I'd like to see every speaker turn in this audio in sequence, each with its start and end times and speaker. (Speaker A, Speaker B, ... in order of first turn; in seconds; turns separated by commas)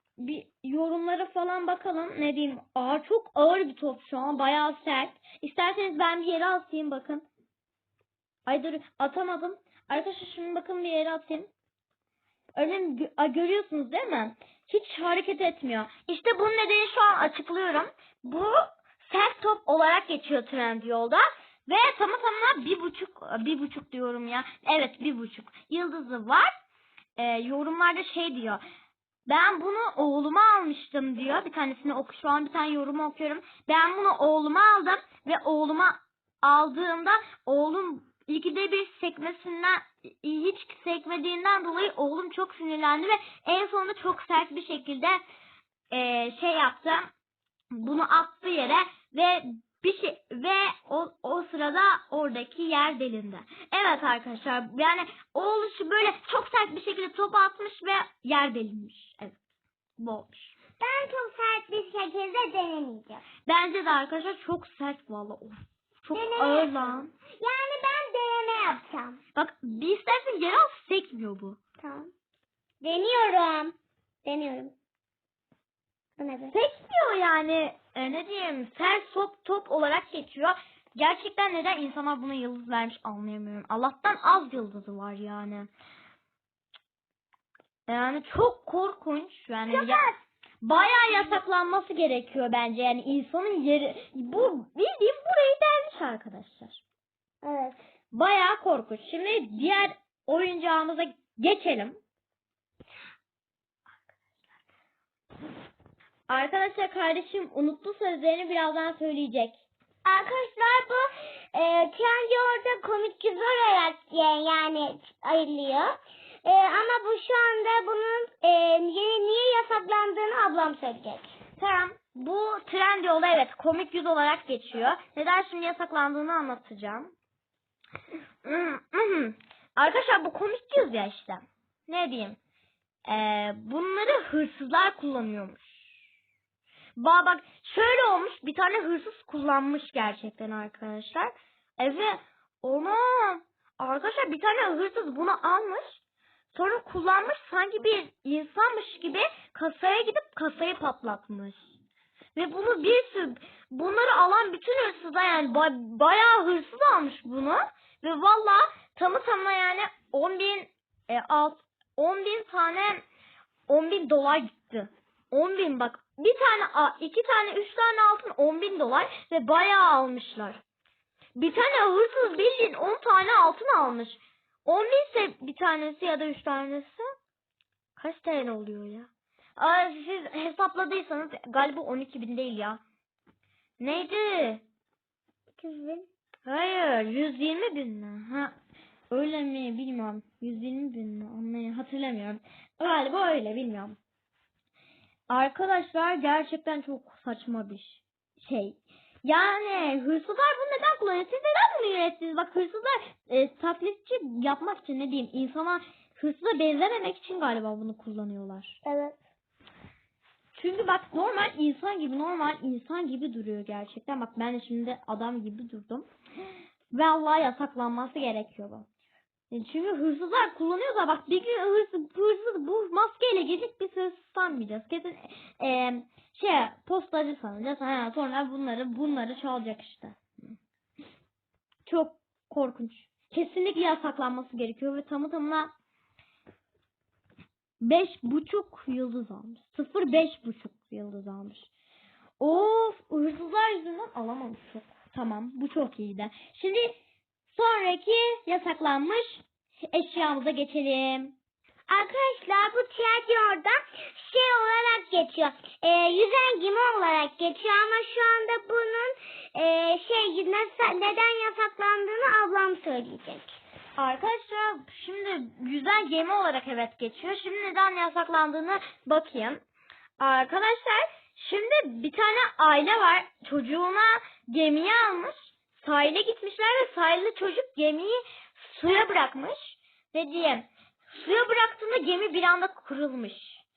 Speaker A: 0.2-7.2, Speaker A: 8.4-11.5, Speaker A: 12.5-26.5, Speaker A: 27.2-28.6, Speaker A: 29.3-45.2, Speaker A: 45.9-47.1, Speaker A: 47.7-59.4, Speaker A: 60.0-60.5, Speaker B: 60.8-63.2, Speaker A: 63.5-67.1, Speaker B: 66.1-69.2, Speaker A: 69.3-71.6, Speaker B: 71.8-72.1, Speaker B: 72.8-74.7, Speaker B: 76.2-76.5, Speaker A: 76.5-85.7, Speaker A: 87.9-90.0, Speaker B: 89.7-90.2, Speaker A: 90.6-96.8, Speaker B: 97.4-97.8, Speaker A: 98.1-102.0, Speaker A: 106.3-109.6, Speaker B: 110.0-121.3, Speaker A: 121.6-127.1, Speaker A: 128.4-132.4, Speaker A: 133.1-135.8, Speaker A: 137.0-146.0, Speaker A: 146.5-151.7, Speaker A: 152.3-163.0, Speaker A: 163.7-170.6, Speaker A: 171.3-177.0, Speaker A: 178.0-182.8, Speaker A: 183.8-184.6, Speaker B: 185.6-186.1, Speaker A: 186.4-188.5, Speaker A: 189.1-194.0, Speaker A: 195.3-208.8, Speaker B: 208.8-209.2, Speaker A: 210.5-216.1, Speaker A: 216.9-218.8, Speaker A: 219.5-230.2, Speaker A: 231.8-235.7, Speaker A: 237.8-241.7, Speaker A: 242.4-247.0, Speaker A: 247.5-251.3, Speaker B: 251.9-263.5, Speaker A: 264.0-269.6, Speaker A: 270.2-283.6